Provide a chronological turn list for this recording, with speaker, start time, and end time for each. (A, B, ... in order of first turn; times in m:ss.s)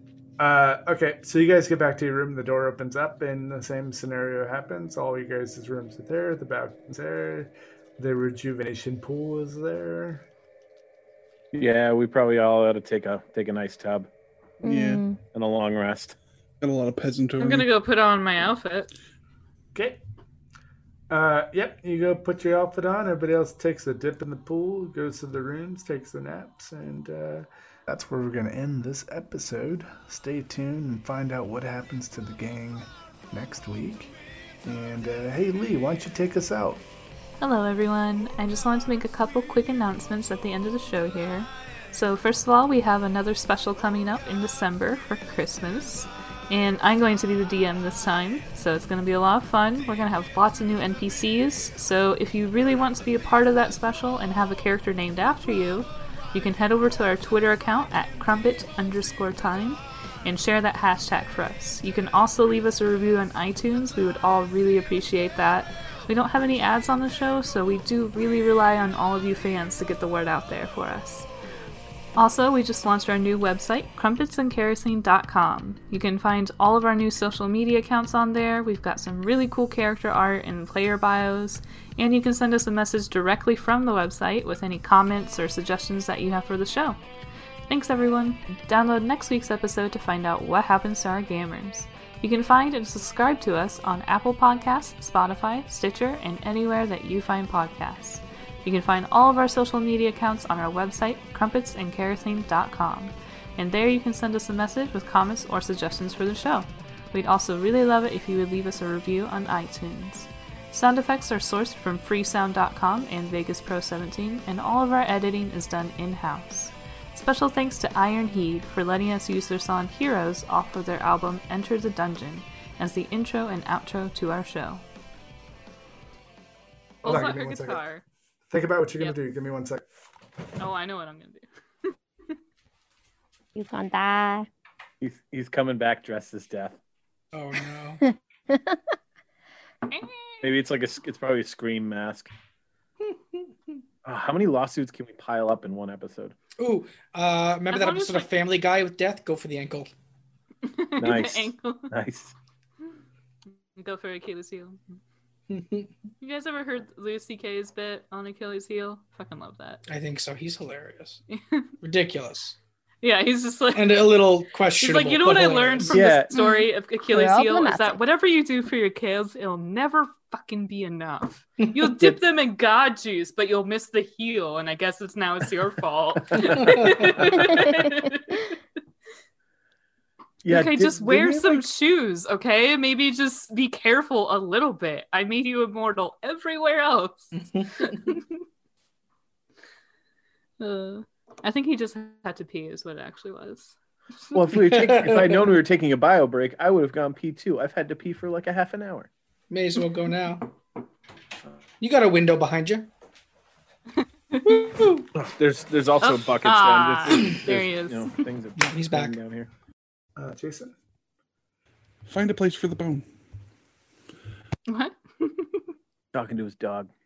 0:00.4-0:10.2 A
0:11.5-0:14.1 B
0:14.6-0:15.2 C
0:14.6-0:15.0 D
0:15.3-0:16.2 B
0:16.6-0:17.7 D
0:17.4-0:18.9 E
0:19.7-0:20.0 A
0:21.1-0:34.1 A
0:34.6-0:36.8 A
0:37.4-1:11.3 E
1:12.2-1:27.0 E
1:27.7-2:04.8 E
2:07.0-2:07.8 A
2:07.0-2:08.0 E
2:08.5-2:09.8 A
2:10.6-2:11.9 E
2:13.5-2:14.5 C
2:15.0-2:16.8 B
2:17.3-2:18.0 F
2:18.0-2:18.8 C
2:19.9-2:20.5 E
2:20.4-2:22.3 B
2:23.0-2:23.4 F
2:24.0-2:26.3 B
2:26.6-2:29.9 F
2:27.7-2:28.3 E
2:30.6-2:31.9 E
2:31.0-2:32.3 B
2:33.7-2:35.0 E
2:35.5-2:35.9 F
2:36.2-2:39.8 E
2:39.9-2:41.2 F
2:41.3-2:41.7 E
2:41.8-2:42.6 F
2:43.0-2:44.0 E
2:43.7-2:46.0 F
2:44.7-2:58.5 E
2:45.9-2:46.4 B
2:47.1-2:48.0 C
2:56.4-2:57.3 F
2:57.6-2:57.9 C
3:00.4-3:01.6 B
3:00.5-3:08.3 E
3:07.4-3:08.2 F
3:10.6-3:13.8 E
3:14.3-3:19.1 B
3:14.5-3:15.5 F
3:19.5-3:20.5 F
3:21.8-3:22.9 F
3:24.3-3:24.6 E
3:24.4-3:25.1 F
3:25.1-3:29.5 B
3:26.0-3:28.1 E
3:28.6-3:29.2 F
3:30.2-3:30.7 A
3:32.1-3:33.0 D
3:34.7-3:35.5 E
3:36.1-3:36.9 B